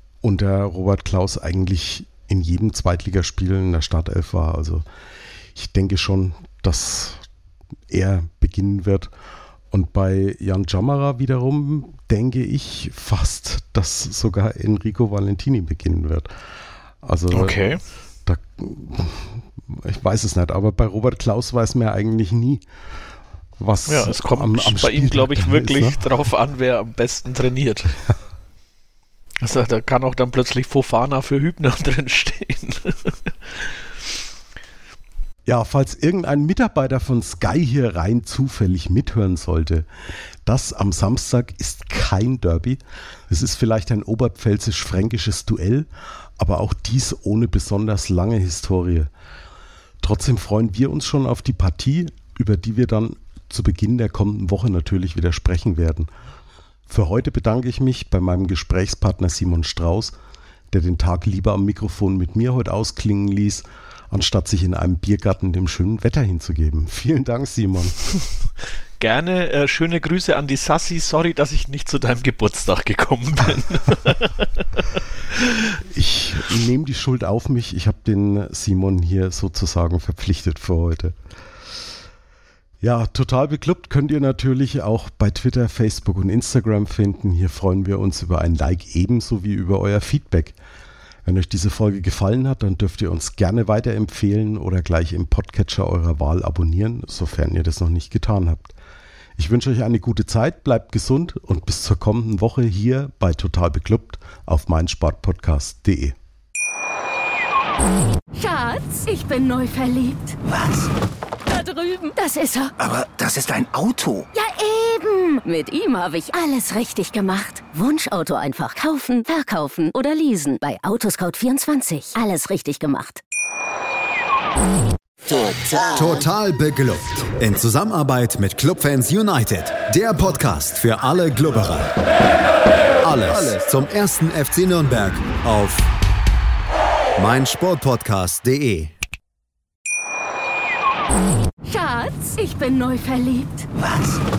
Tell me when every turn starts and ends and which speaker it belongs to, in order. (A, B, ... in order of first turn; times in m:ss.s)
0:00.2-0:04.8 A
0:05.6-0:07.2 A
0:07.9-0:09.1 A
0:09.7-0:16.3 A
0:17.0-0:17.6 A
0:17.3-0:17.8 B
0:18.2-0:22.6 A
0:23.6-0:26.1 A
0:23.9-0:28.0 B
0:29.4-0:33.7 B
0:35.5-0:39.9 A
0:40.4-0:49.1 A
0:50.0-0:56.1 A
0:56.9-1:00.2 A
1:00.7-1:08.0 A
1:09.0-1:14.7 B
1:15.9-1:21.2 A
1:22.8-1:30.6 A
1:31.2-1:38.7 A
1:39.4-1:46.2 A
1:48.4-1:50.4 C
1:50.5-1:50.9 D
1:51.5-1:52.7 C
1:52.8-1:54.3 D
1:54.3-2:03.2 C
2:05.2-2:11.9 E
2:13.0-2:15.9 E
2:17.2-2:18.9 E
2:21.6-2:23.7 C
2:23.8-2:24.2 D